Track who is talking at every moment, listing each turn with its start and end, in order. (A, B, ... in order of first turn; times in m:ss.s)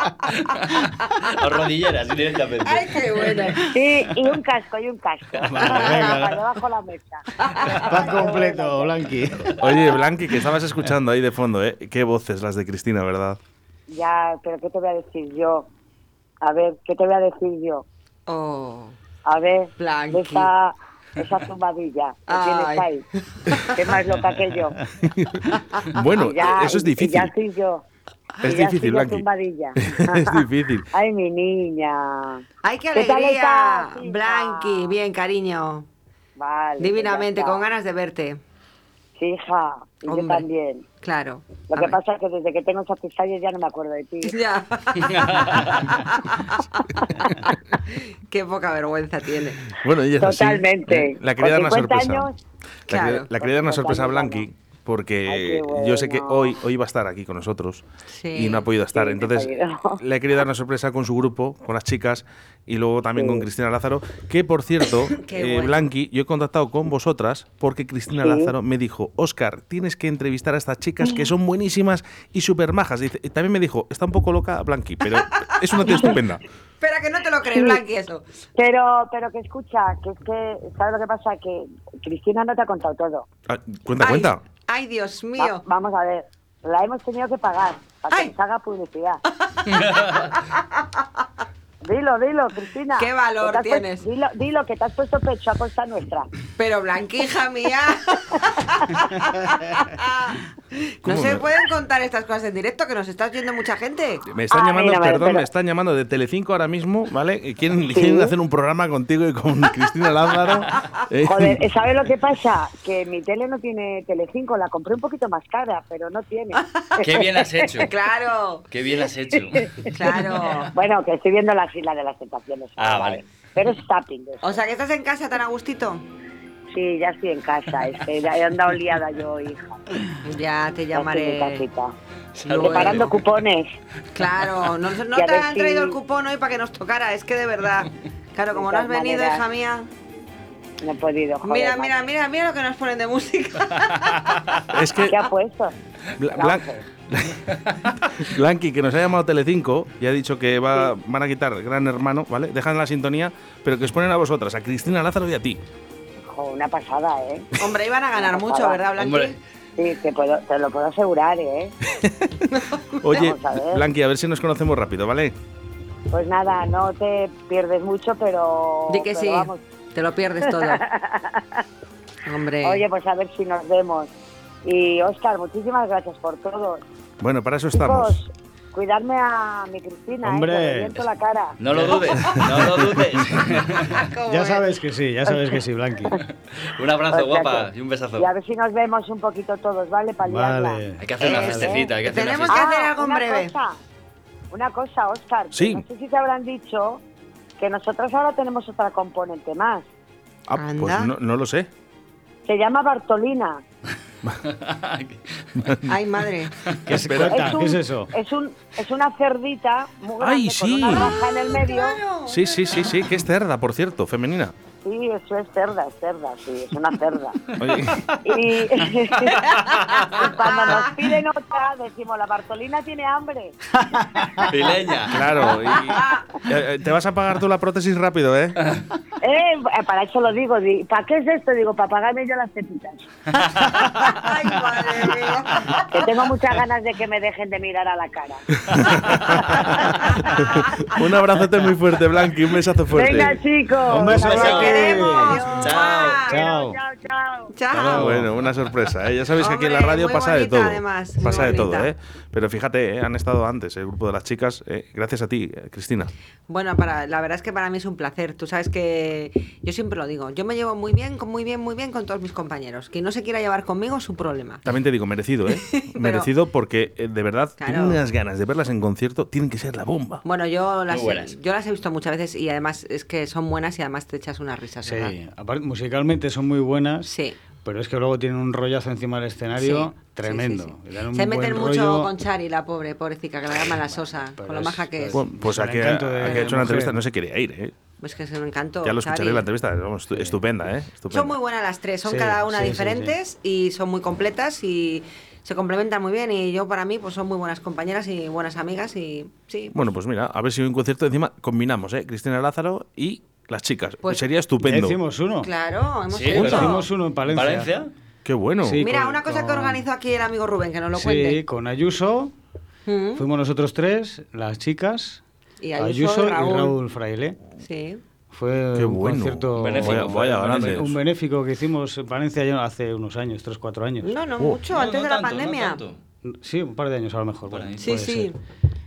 0:00.5-0:03.5 A
0:02.6-0:03.7 B
0:03.7-0:09.0 C
0:05.4-0:06.4 D
0:07.4-0:08.3 B
0:07.8-0:09.6 D
0:09.6-0:13.4 E
0:13.9-0:15.7 C
0:16.4-0:17.8 C
0:18.3-0:19.0 B
0:19.2-0:23.0 C
0:19.8-0:20.5 B
0:22.3-0:22.9 B
0:23.5-0:23.9 B
0:23.7-0:24.8 C
0:25.0-0:27.3 E
0:26.2-0:27.8 C
0:28.4-0:29.2 E
0:28.4-0:35.0 C
0:29.8-0:30.9 E
0:32.6-0:35.9 B
0:36.4-0:37.6 C
0:36.8-0:38.4 B
0:39.2-0:40.8 C
0:40.1-0:40.4 B
0:41.0-0:42.0 B
0:41.7-0:44.4 C
0:44.2-0:49.8 B
0:49.7-0:52.3 E
0:50.2-0:52.3 C
0:52.9-0:53.3 B
0:52.9-1:16.4 E
0:53.3-0:54.5 C
0:55.3-0:56.6 C
0:58.1-0:58.7 B
0:58.9-1:00.0 C
1:03.2-1:03.5 C
1:05.2-1:05.9 B
1:08.1-1:08.5 C
1:11.0-1:11.3 C
1:15.7-1:16.1 B
1:15.8-1:16.2 C
1:16.8-1:18.2 B
1:17.5-1:17.8 C
1:18.6-1:23.3 C
1:23.5-1:24.4 E
1:24.0-1:25.6 B
1:25.4-1:29.2 C
1:29.5-1:30.4 B
1:31.8-1:36.3 C
1:33.0-1:34.0 B
1:36.6-1:44.2 B
1:41.0-1:41.4 E
1:44.3-1:51.6 E
1:44.5-1:45.5 C
1:47.9-1:48.3 C
1:51.2-1:57.9 C
1:57.0-1:57.9 A
1:57.8-1:58.6 B
1:58.7-2:00.4 A
1:59.3-1:59.9 C
1:59.9-2:00.7 B
2:00.7-2:04.6 C
2:02.8-2:03.2 A
2:04.4-2:06.0 B
2:06.7-2:09.8 C
2:10.2-2:11.6 B
2:10.9-2:11.9 C
2:12.4-2:13.3 A
2:12.5-2:13.1 B
2:12.5-2:13.7 C
2:14.1-2:19.9 B
2:15.1-2:16.0 C
2:18.5-2:19.4 C
2:20.8-2:22.1 C
2:21.4-2:24.7 B
2:24.7-2:25.2 E
2:25.0-2:25.7 C
2:26.2-2:35.6 E
2:26.3-2:26.8 C
2:36.2-2:37.5 C
2:37.6-2:39.4 B
2:38.2-2:38.8 C
2:39.0-2:39.4 A
2:39.8-2:41.7 C
2:41.9-2:42.5 E
2:43.0-2:45.4 E
2:43.1-2:43.8 C
2:46.1-2:49.6 C
2:48.9-2:50.8 B
2:50.4-2:51.6 C
2:52.2-2:52.8 B
2:52.6-2:54.1 C
2:54.6-2:56.8 C
2:57.2-2:58.2 E
2:57.7-3:01.6 C
3:00.2-3:01.0 D
3:01.6-3:04.1 A
3:01.7-3:02.0 D
3:03.5-3:04.7 B
3:04.3-3:06.2 D
3:06.6-3:08.3 A
3:07.1-3:11.9 C
3:10.2-3:11.8 D
3:11.0-3:12.7 A
3:11.2-3:13.5 B
3:12.5-3:13.8 C
3:14.5-3:17.0 C
3:15.5-3:15.8 E
3:17.6-3:19.9 C
3:20.5-3:21.7 E
3:20.6-3:21.1 B
3:22.5-3:23.6 C
3:24.4-3:25.8 A
3:25.6-3:25.9 E
3:25.9-3:26.6 B
3:26.9-3:28.1 D
3:26.9-3:27.5 E
3:27.2-3:32.0 C
3:30.2-3:31.1 E
3:30.8-3:33.0 B
3:32.3-3:34.6 E
3:34.8-3:37.6 C
3:37.6-3:38.1 E
3:38.2-3:43.6 C
3:40.2-3:41.1 B
3:44.0-3:44.4 D
3:44.4-3:45.6 A
3:45.1-3:48.8 E
3:45.9-3:46.2 B
3:49.2-3:53.1 C
3:53.9-3:56.1 B
3:55.9-4:00.2 C
3:58.6-4:03.4 E
4:02.9-4:07.5 C
4:03.9-4:05.6 D
4:03.9-4:06.3 A
4:04.3-4:06.4 B
4:06.3-4:06.8 D
4:07.5-4:08.2 B
4:07.7-4:08.3 D
4:08.0-4:16.1 E
4:09.4-4:11.9 B
4:16.5-4:24.6 B
4:24.6-4:30.2 E
4:25.5-4:26.3 B
4:27.6-4:28.0 B
4:30.2-4:35.2 B
4:30.9-4:31.4 A
4:34.8-4:37.1 D
4:37.0-4:37.4 B
4:37.6-4:42.1 D
4:39.6-4:45.2 B
4:44.4-4:47.0 D
4:45.1-4:47.7 E
4:46.3-4:46.5 B
4:48.0-4:49.4 B
4:48.8-4:51.4 E
4:50.1-4:50.4 D
4:51.1-4:59.8 B
4:52.0-4:53.2 D
4:59.7-5:05.0 E
5:04.6-5:05.5 D
5:05.4-5:06.9 B
5:06.1-5:07.9 A
5:06.3-5:07.7 D
5:08.2-5:08.8 E
5:08.6-5:09.8 D
5:08.8-5:11.4 B
5:10.9-5:12.3 D
5:12.9-5:13.3 B
5:13.2-5:15.2 D
5:15.6-5:16.8 B
5:15.8-5:17.4 D
5:17.6-5:18.0 B
5:18.3-5:24.2 D
5:18.8-5:20.9 E
5:19.6-5:21.0 A
5:24.0-5:25.8 B
5:24.7-5:26.0 A
5:26.2-5:28.3 D
5:27.5-5:28.0 A
5:27.8-5:28.4 B